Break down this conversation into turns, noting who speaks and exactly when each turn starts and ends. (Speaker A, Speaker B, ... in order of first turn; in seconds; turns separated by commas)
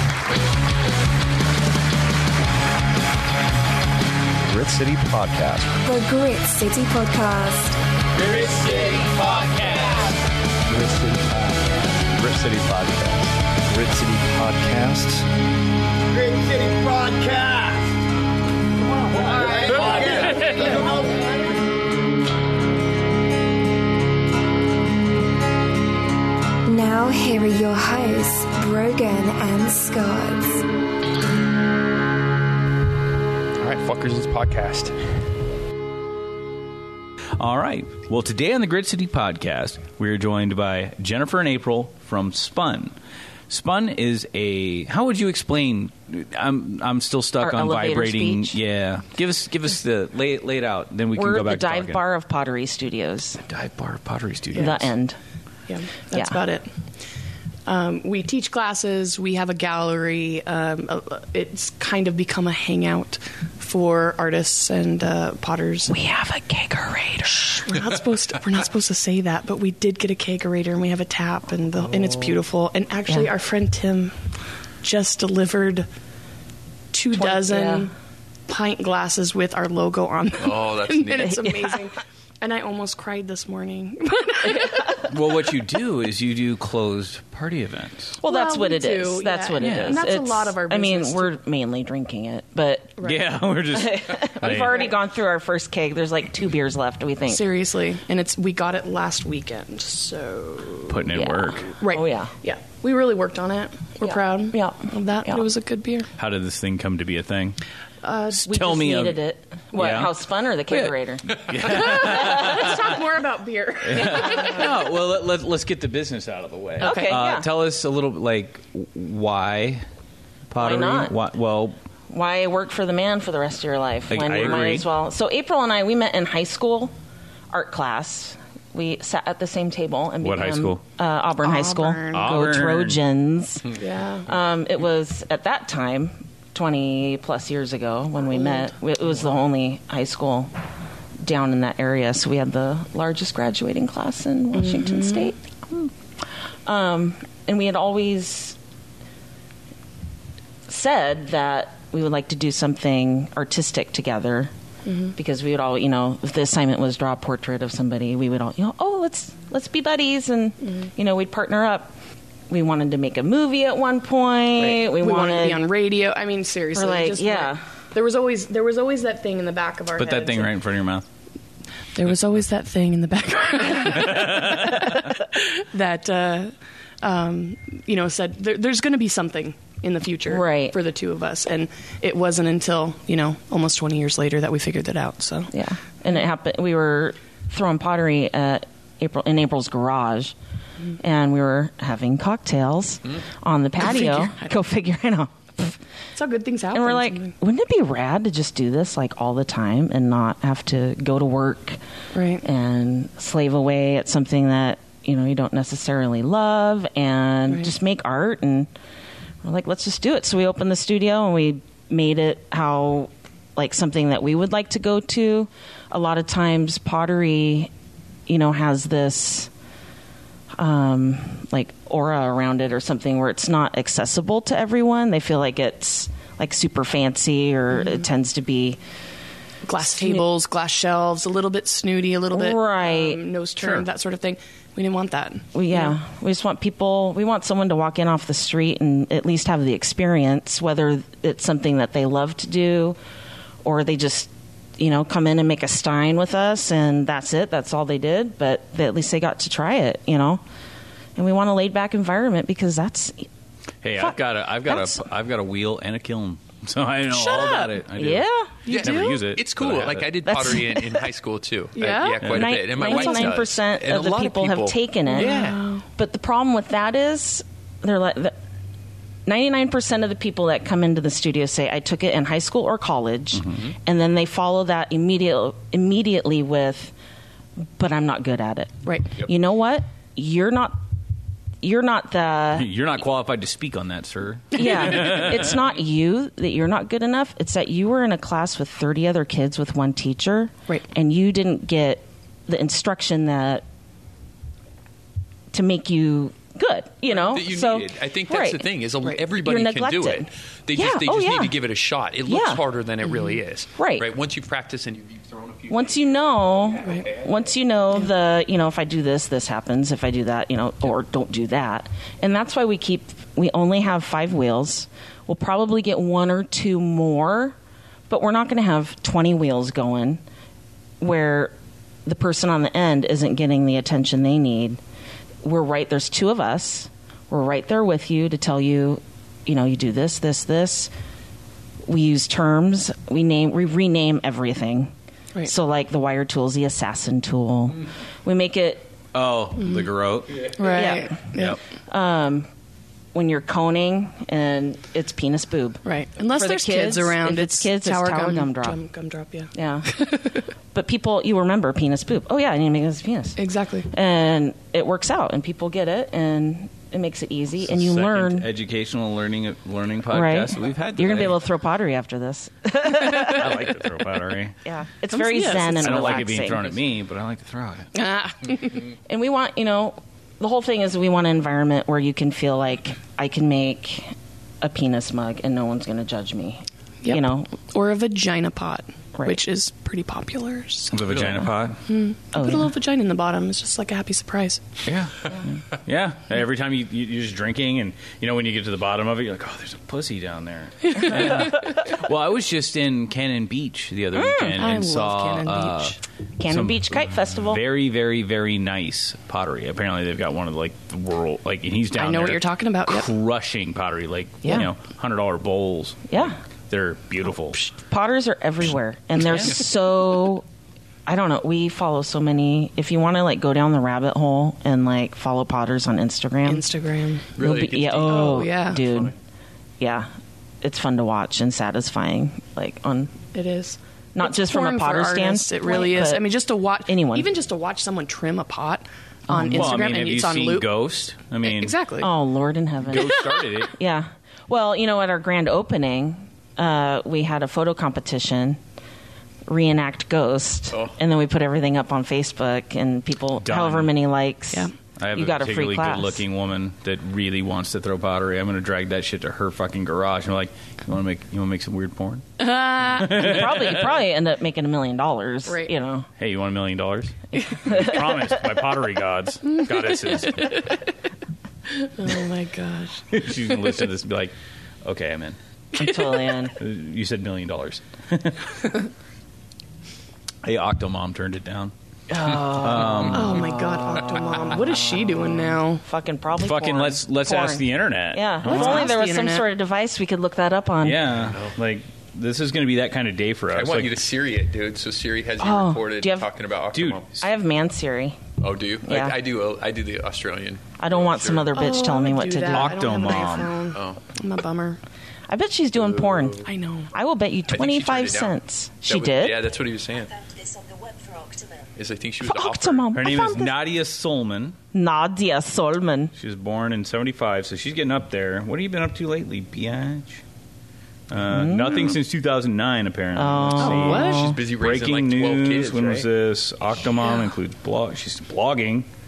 Speaker A: 4.5-5.6, Speaker B: 5.8-7.8, Speaker C: 8.7-8.9, Speaker A: 10.7-15.2, Speaker A: 16.8-17.5, Speaker A: 19.2-20.9, Speaker B: 26.6-30.6, Speaker C: 33.6-34.9, Speaker D: 37.4-42.9, Speaker D: 43.5-52.0, Speaker E: 47.4-48.6, Speaker E: 51.1-53.4, Speaker D: 53.5-54.9, Speaker E: 54.5-55.2, Speaker F: 55.7-56.7, Speaker E: 56.1-56.4, Speaker F: 57.6-65.9, Speaker E: 65.9-67.8, Speaker F: 67.4-74.2, Speaker F: 74.8-75.9, Speaker F: 76.9-77.9, Speaker E: 77.1-77.9, Speaker F: 78.5-85.0, Speaker C: 80.4-81.4, Speaker E: 81.3-81.8, Speaker D: 85.1-88.2, Speaker E: 88.2-93.0, Speaker F: 88.2-91.3, Speaker D: 89.6-90.0, Speaker D: 93.0-94.9, Speaker E: 93.7-97.4, Speaker F: 94.4-94.9, Speaker F: 97.3-101.0, Speaker D: 100.9-101.7, Speaker E: 101.1-102.3, Speaker F: 101.8-106.1, Speaker E: 104.0-105.5, Speaker D: 106.2-107.6, Speaker F: 108.0-108.7, Speaker D: 108.4-109.2, Speaker E: 108.5-111.4, Speaker D: 109.7-110.1, Speaker D: 110.7-112.9, Speaker F: 111.6-114.7, Speaker D: 113.8-119.8, Speaker F: 116.8-117.2, Speaker E: 116.8-117.5, Speaker D: 120.5-121.8, Speaker E: 120.5-121.1, Speaker E: 122.1-126.9, Speaker D: 124.1-124.9, Speaker E: 127.5-140.5, Speaker D: 130.2-130.8, Speaker F: 131.4-132.3, Speaker D: 132.1-133.0, Speaker F: 133.8-134.3, Speaker F: 138.3-138.7, Speaker E: 141.2-145.9, Speaker F: 144.5-145.3, Speaker E: 146.7-148.6, Speaker E: 150.7-154.5, Speaker F: 154.8-155.1, Speaker E: 155.2-161.9, Speaker E: 162.5-165.6, Speaker F: 164.6-170.5, Speaker E: 166.7-167.7, Speaker D: 170.0-171.0, Speaker F: 171.9-185.5, Speaker E: 180.3-180.8, Speaker E: 185.5-190.3, Speaker E: 191.0-195.7, Speaker F: 193.8-194.5, Speaker F: 196.1-197.3, Speaker E: 196.7-201.8, Speaker F: 202.1-202.4, Speaker E: 202.4-208.7, Speaker E: 209.4-217.7, Speaker E: 218.3-219.5, Speaker E: 220.6-228.8, Speaker F: 227.7-228.0, Speaker F: 229.6-235.9, Speaker E: 229.8-230.2, Speaker E: 232.3-233.2, Speaker D: 233.6-233.8, Speaker E: 235.5-243.0, Speaker E: 243.6-250.4, Speaker E: 251.2-253.3, Speaker D: 253.8-260.1, Speaker E: 254.0-255.0, Speaker F: 257.1-257.8, Speaker E: 257.9-258.6, Speaker F: 258.6-259.2, Speaker C: 258.7-265.6, Speaker E: 260.2-261.1, Speaker F: 261.7-263.4, Speaker D: 262.2-262.5, Speaker E: 262.3-268.4, Speaker F: 265.1-265.8, Speaker E: 269.2-276.9, Speaker D: 273.3-273.6, Speaker E: 277.8-280.8, Speaker F: 278.9-279.1, Speaker E: 281.6-282.7, Speaker D: 282.5-285.6, Speaker E: 284.5-293.6, Speaker E: 295.5-298.7, Speaker C: 297.2-307.4, Speaker E: 299.3-301.6, Speaker E: 302.2-302.6, Speaker E: 303.7-304.1, Speaker E: 305.7-317.6, Speaker E: 318.1-320.2, Speaker E: 321.0-321.5, Speaker E: 322.1-324.8, Speaker E: 325.4-330.9, Speaker E: 331.9-334.9, Speaker E: 335.4-338.9, Speaker D: 339.1-340.5, Speaker F: 340.6-341.6, Speaker E: 340.6-341.3, Speaker E: 341.9-342.5, Speaker E: 343.1-345.8, Speaker F: 345.8-350.2, Speaker E: 346.3-348.8, Speaker E: 349.5-349.9, Speaker E: 350.7-353.4, Speaker F: 353.4-353.9, Speaker E: 353.9-358.5, Speaker D: 357.6-361.4, Speaker E: 360.1-363.6, Speaker D: 363.3-364.6, Speaker E: 364.6-366.7, Speaker F: 365.1-366.2, Speaker D: 365.8-367.9, Speaker F: 367.9-368.9, Speaker E: 369.1-377.5, Speaker F: 377.0-381.0, Speaker E: 379.1-379.4, Speaker D: 380.9-381.8, Speaker F: 381.9-384.6, Speaker E: 382.3-382.7, Speaker D: 384.8-407.6, Speaker E: 394.1-394.6, Speaker F: 394.6-396.0, Speaker E: 396.4-397.6, Speaker F: 401.9-403.1, Speaker E: 406.1-406.4, Speaker E: 407.7-410.4, Speaker D: 409.2-409.5, Speaker E: 411.1-416.7, Speaker F: 416.4-417.3, Speaker C: 417.4-419.1, Speaker E: 417.4-419.1, Speaker F: 418.1-418.8, Speaker E: 419.8-420.1, Speaker E: 420.6-423.1, Speaker F: 423.3-430.7, Speaker E: 424.1-426.3, Speaker E: 426.9-427.3, Speaker E: 429.3-430.1, Speaker D: 429.5-431.8, Speaker F: 431.4-432.1, Speaker E: 432.0-438.6, Speaker D: 432.8-433.7, Speaker E: 439.5-446.2, Speaker D: 443.4-443.9, Speaker D: 445.0-452.2, Speaker F: 452.4-453.4, Speaker D: 452.8-453.9, Speaker E: 453.0-456.1, Speaker F: 455.4-455.7, Speaker D: 456.2-460.6, Speaker E: 457.7-457.9, Speaker F: 459.6-460.8, Speaker F: 461.7-463.6, Speaker D: 463.1-464.3, Speaker D: 464.8-465.4, Speaker F: 465.8-466.3, Speaker E: 465.8-466.5, Speaker D: 466.6-468.4, Speaker D: 470.4-471.7, Speaker E: 472.1-481.1, Speaker D: 472.5-473.4, Speaker F: 473.1-475.8, Speaker D: 476.4-478.9, Speaker F: 478.4-479.4, Speaker D: 480.8-484.0, Speaker C: 481.1-481.5, Speaker C: 483.5-487.2, Speaker E: 485.4-486.3, Speaker D: 486.7-487.0, Speaker E: 487.2-488.2, Speaker C: 488.4-491.6, Speaker E: 488.8-489.2, Speaker E: 490.8-492.8, Speaker F: 491.5-494.8, Speaker D: 492.5-493.6, Speaker C: 493.7-494.0, Speaker E: 495.3-499.5, Speaker C: 495.8-496.4, Speaker F: 496.4-496.9, Speaker C: 497.5-500.2, Speaker C: 501.7-503.1, Speaker E: 502.2-503.6, Speaker D: 502.9-504.6, Speaker E: 504.7-506.1, Speaker D: 506.1-510.2, Speaker D: 511.1-518.9, Speaker E: 511.3-511.9, Speaker E: 513.1-514.4, Speaker F: 513.6-514.3, Speaker C: 514.1-516.1